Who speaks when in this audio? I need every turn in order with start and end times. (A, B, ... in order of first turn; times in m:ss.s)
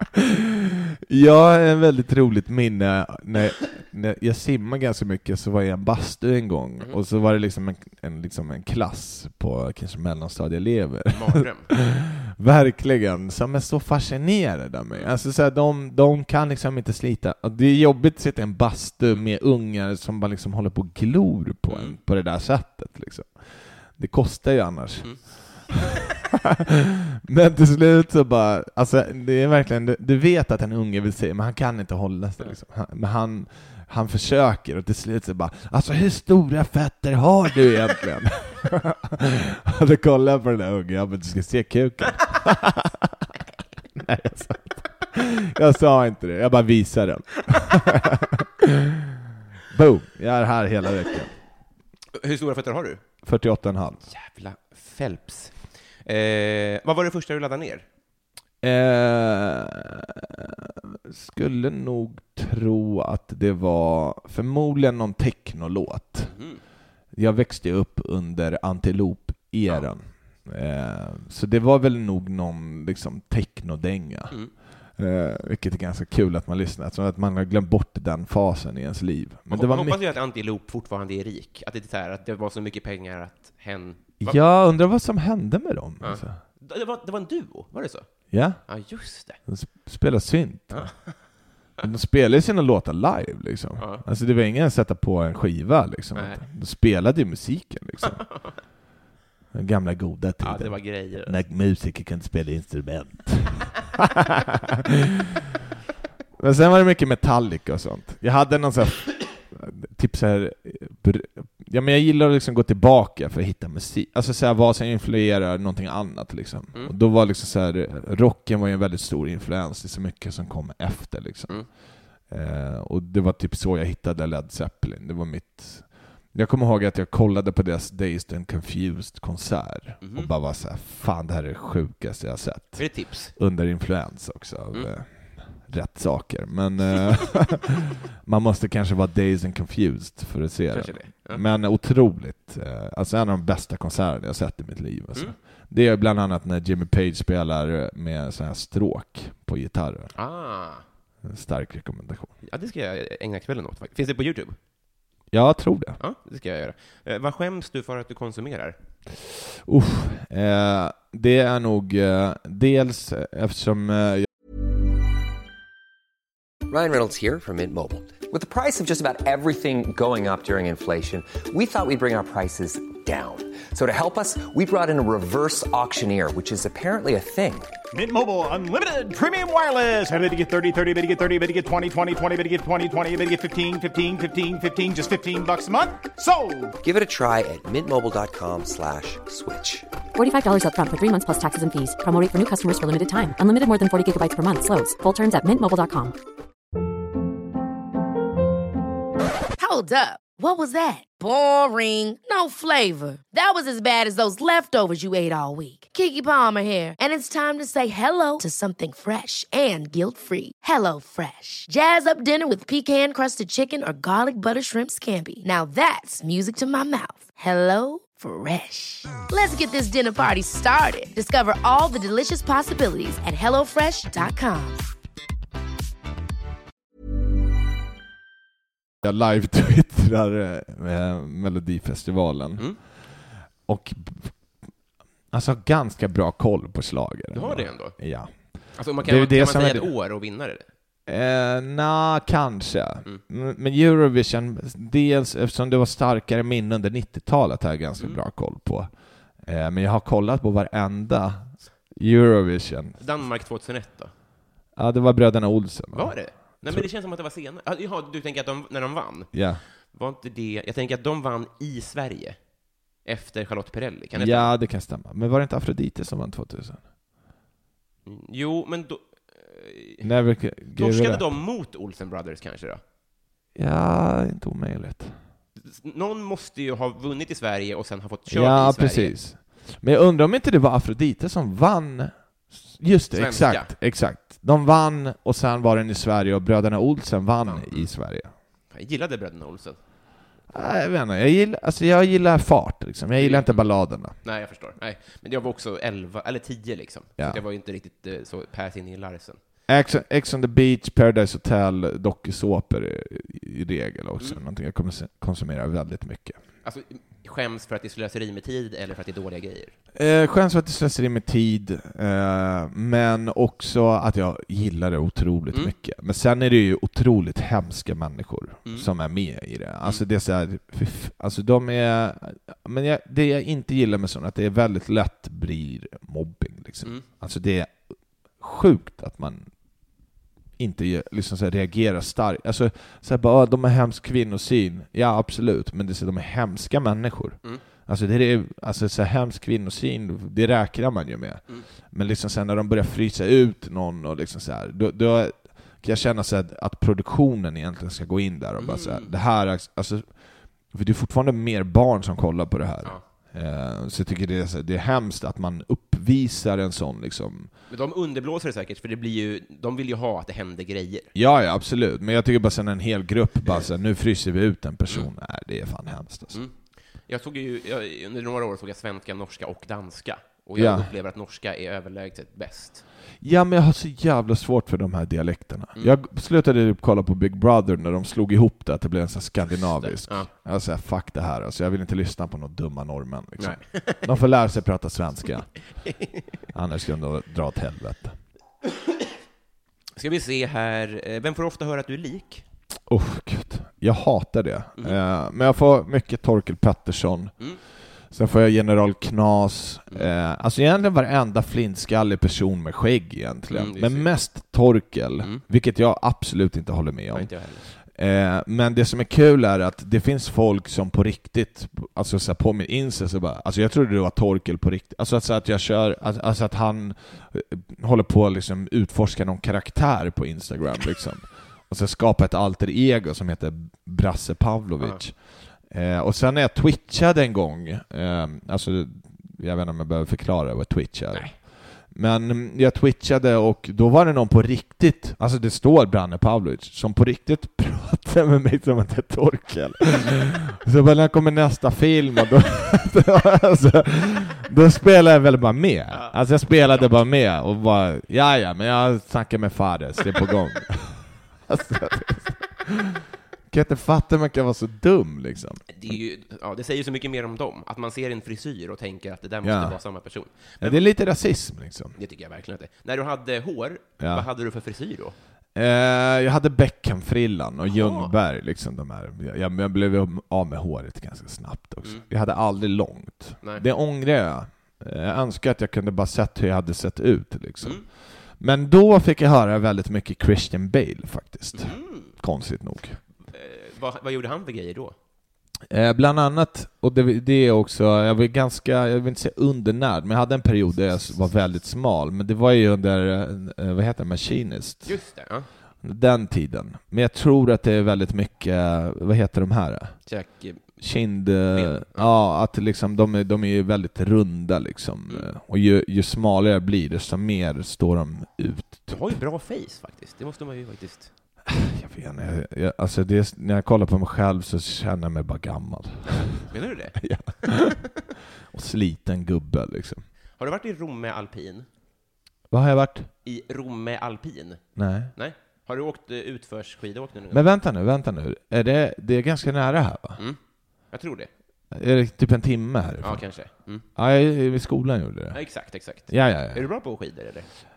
0:01.1-0:25.7 A
0:11.1-0:11.7 B
0:21.7-0:22.0 B
0:25.0-0:25.9 B
0:27.2-0:43.2 A
0:43.9-0:48.6 A
0:49.7-0:51.3 A
0:52.1-0:53.0 B
0:53.2-0:54.1 A
0:54.1-0:57.8 B
0:58.6-1:06.3 A
1:06.2-1:06.6 B
1:07.1-1:20.0 A
1:19.5-1:24.4 B
1:24.2-1:26.4 A
1:26.0-1:29.4 B
1:28.3-1:31.0 A
1:30.7-1:31.2 B
1:31.8-1:38.3 A
1:33.8-1:34.0 B
1:36.1-1:36.4 B
1:38.0-1:38.5 B
1:39.5-1:44.0 A
1:40.4-1:41.4 B
1:46.4-2:17.6 A
2:10.0-2:10.3 B
2:12.8-2:13.3 B
2:18.2-2:30.1 A
2:20.7-2:21.4 B
2:30.1-2:30.8 B
2:31.2-2:32.3 A
2:32.4-2:34.6 B
2:35.3-2:36.0 A
2:36.0-2:38.8 B
2:39.5-2:44.2 A
2:46.7-2:57.7 C
2:57.9-3:06.8 D
3:06.8-3:09.9 C
3:10.1-3:16.2 E
3:19.6-3:44.8 F
3:49.0-3:54.6 A
3:55.3-3:59.9 A
3:57.3-4:00.6 B
4:01.0-4:13.2 A
4:13.0-4:14.1 B
4:14.8-4:16.9 A
4:15.9-4:22.4 B
4:19.3-4:19.6 A
4:23.0-4:24.5 B
4:24.1-4:26.8 A
4:28.0-4:30.1 B
4:30.0-4:31.3 A
4:30.7-4:32.8 B
4:33.5-4:35.2 A
4:35.6-4:39.1 B
4:38.3-4:48.3 A
4:43.1-4:43.7 B
4:47.4-4:47.9 B
4:48.4-4:49.8 B
4:50.5-4:54.2 A
4:53.1-4:59.4 B
4:59.7-5:06.4 A
5:06.6-5:09.8 B
5:09.9-5:27.8 A
5:28.4-5:29.5 A
5:30.6-5:57.5 A
5:48.6-5:49.1 B
5:57.7-6:01.1 B
6:01.1-6:06.4 A
6:06.3-6:12.8 B
6:10.5-6:10.9 A
6:13.2-6:25.6 A
6:19.8-6:20.3 B
6:23.4-6:24.0 B
6:25.8-6:26.2 B
6:26.5-6:28.2 A
6:30.0-6:32.4 B
6:32.9-7:32.9 A
6:43.5-6:44.1 B
6:47.1-6:47.6 B
7:04.8-7:05.0 B
7:25.9-7:26.9 B
7:33.5-7:36.0 A
7:35.7-7:40.9 B
7:39.4-7:39.8 A
7:40.6-7:42.0 A
7:42.0-7:45.1 B
7:44.0-7:44.2 A
7:45.5-8:03.0 A
7:47.7-7:48.1 B
8:01.5-8:02.1 B
8:03.3-8:04.9 B
8:05.7-8:15.0 A
8:14.8-8:15.5 B
8:15.8-8:20.0 A
8:20.0-8:20.8 B
8:20.8-8:29.1 A
8:21.5-8:22.1 B
8:28.9-8:31.1 B
8:31.5-8:40.0 A
8:36.1-8:37.6 B
8:40.4-8:41.7 B
8:42.5-8:43.1 A
8:43.2-8:47.4 B
8:44.7-8:45.1 A
8:47.3-8:50.2 A
8:50.2-8:51.3 B
8:51.7-8:56.7 A
8:53.0-8:53.9 B
8:55.3-8:57.5 B